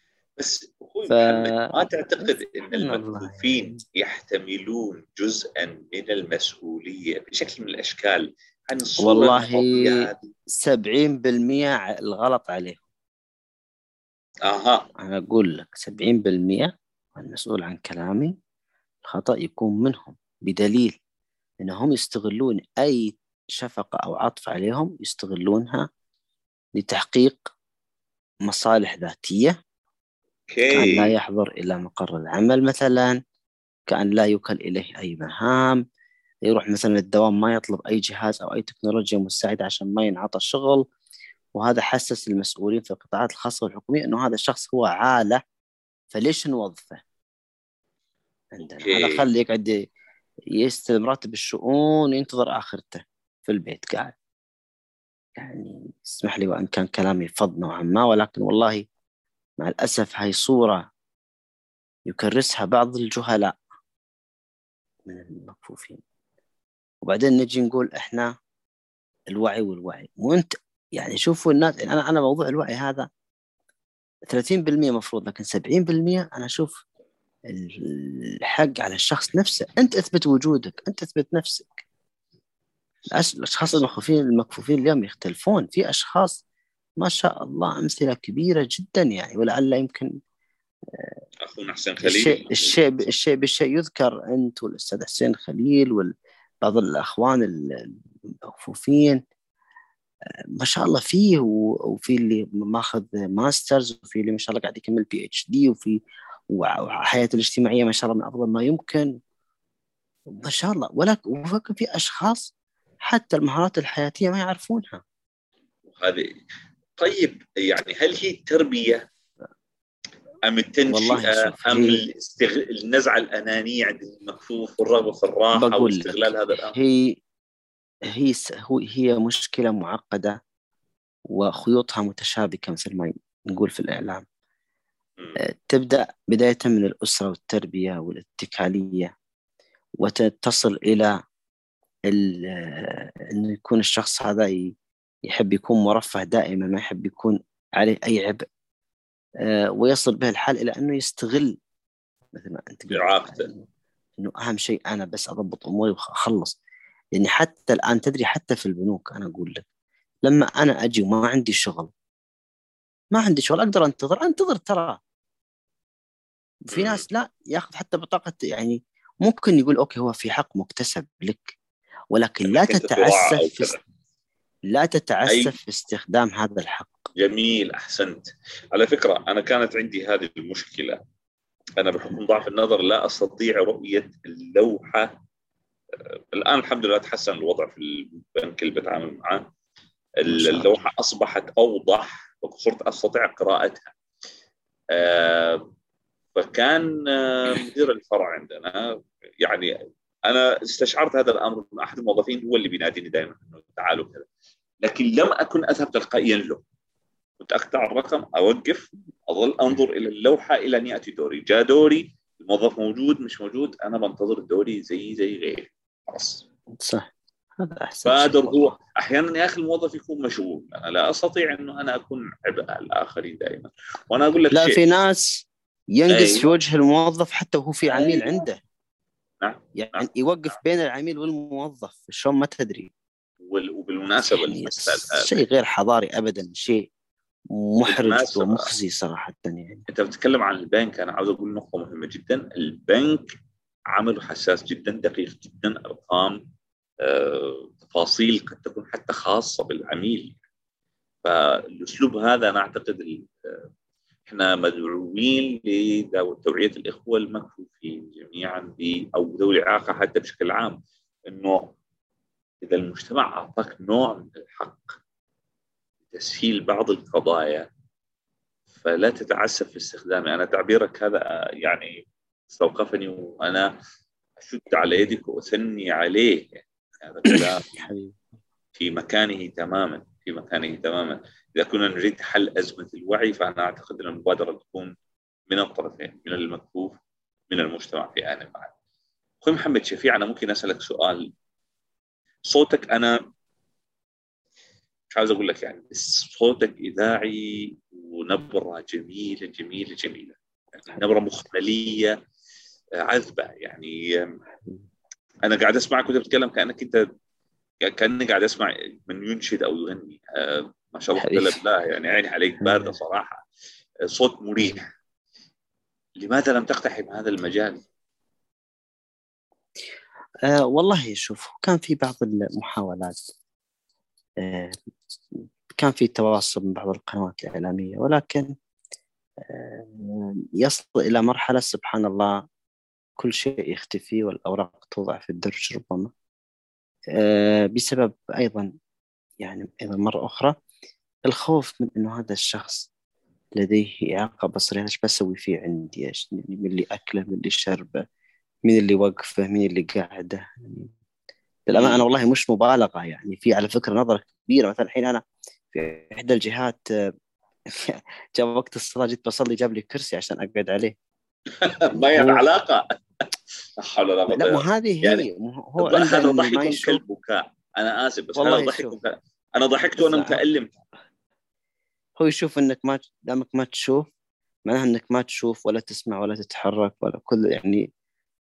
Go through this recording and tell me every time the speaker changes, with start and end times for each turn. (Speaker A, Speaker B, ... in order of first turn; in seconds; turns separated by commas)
Speaker A: 0.4-10.3, Speaker B: 1.1-1.7, Speaker B: 2.2-3.8, Speaker B: 9.0-10.1, Speaker B: 10.6-12.8, Speaker A: 14.5-14.8, Speaker B: 15.0-18.3, Speaker B: 19.0-21.0, Speaker B: 21.6-25.9, Speaker B: 26.8-27.5, Speaker B: 28.5-29.5, Speaker A: 30.5-31.1, Speaker B: 30.7-33.2, Speaker B: 33.9-35.8, Speaker B: 36.5-40.9, Speaker B: 41.5-45.4, Speaker B: 46.1-47.0, Speaker B: 48.5-49.9, Speaker A: 48.8-49.3, Speaker B: 50.5-54.2, Speaker B: 55.4-58.9, Speaker B: 59.6-60.8, Speaker B: 62.1-63.6, Speaker B: 65.1-66.0, Speaker B: 67.0-68.3, Speaker B: 69.3-73.1, Speaker B: 74.3-76.8, Speaker B: 77.5-81.8, Speaker B: 83.1-86.4, Speaker A: 83.6-84.0, Speaker B: 87.0-90.1, Speaker B: 90.9-91.2, Speaker A: 91.4-92.9, Speaker B: 92.0-99.2, Speaker B: 100.6-109.2, Speaker B: 110.3-112.5, Speaker B: 113.0-115.0, Speaker A: 115.9-116.3, Speaker A: 117.0-119.1, Speaker A: 120.5-126.8, Speaker B: 120.9-122.0, Speaker B: 125.5-127.2, Speaker B: 128.1-130.4, Speaker B: 131.3-134.3, Speaker B: 135.4-139.1, Speaker B: 140.0-141.2, Speaker B: 142.1-144.8, Speaker B: 145.3-148.4, Speaker B: 149.4-151.6, Speaker B: 152.3-153.7, Speaker A: 152.9-153.5, Speaker B: 154.2-156.6, Speaker B: 157.2-159.7, Speaker B: 160.2-161.9, Speaker B: 163.1-165.0, Speaker B: 166.7-171.6, Speaker A: 166.7-167.1, Speaker B: 172.1-173.7, Speaker A: 172.5-173.8, Speaker B: 174.7-177.1, Speaker A: 175.3-175.6, Speaker A: 177.2-181.0, Speaker A: 181.8-185.1, Speaker A: 186.1-189.5, Speaker A: 190.2-193.9, Speaker B: 190.3-190.9, Speaker A: 194.9-195.7, Speaker A: 196.3-199.8, Speaker A: 200.3-204.3, Speaker A: 204.8-206.6, Speaker A: 207.4-216.4, Speaker B: 216.8-218.7, Speaker A: 218.1-224.8, Speaker B: 224.5-228.6, Speaker A: 226.1-226.5, Speaker A: 227.9-228.4, Speaker A: 229.4-230.6, Speaker B: 229.8-232.9, Speaker A: 233.5-235.4, Speaker B: 234.2-236.9, Speaker B: 237.5-239.8, Speaker A: 237.8-238.7, Speaker A: 239.9-243.3, Speaker A: 243.9-246.4, Speaker A: 247.0-250.4, Speaker A: 251.2-253.7, Speaker A: 254.3-261.8, Speaker A: 262.6-264.9, Speaker A: 266.1-267.7, Speaker A: 268.8-273.7, Speaker A: 274.4-277.9, Speaker B: 277.3-278.2, Speaker A: 278.8-285.0, Speaker A: 285.5-287.0, Speaker A: 287.5-288.7, Speaker A: 289.4-291.3, Speaker A: 292.5-293.2, Speaker A: 295.1-302.2, Speaker A: 303.0-304.4, Speaker A: 305.4-307.1, Speaker A: 307.8-313.4, Speaker B: 311.2-311.6, Speaker B: 312.6-312.9, Speaker A: 314.1-314.9, Speaker A: 316.2-317.8, Speaker B: 320.4-323.2, Speaker B: 324.4-324.8, Speaker B: 325.3-328.5, Speaker B: 329.4-332.4, Speaker B: 333.2-336.1, Speaker B: 337.2-338.7, Speaker B: 339.4-340.6, Speaker B: 341.3-342.9, Speaker B: 343.6-348.0, Speaker B: 348.7-350.9, Speaker B: 351.7-356.9, Speaker A: 351.7-352.0, Speaker B: 357.7-360.9, Speaker A: 361.6-362.8, Speaker B: 361.9-362.4, Speaker A: 363.8-365.2, Speaker B: 364.3-367.0, Speaker A: 365.8-370.8, Speaker B: 368.4-369.0, Speaker B: 370.0-370.4, Speaker B: 372.2-374.1, Speaker B: 374.7-377.9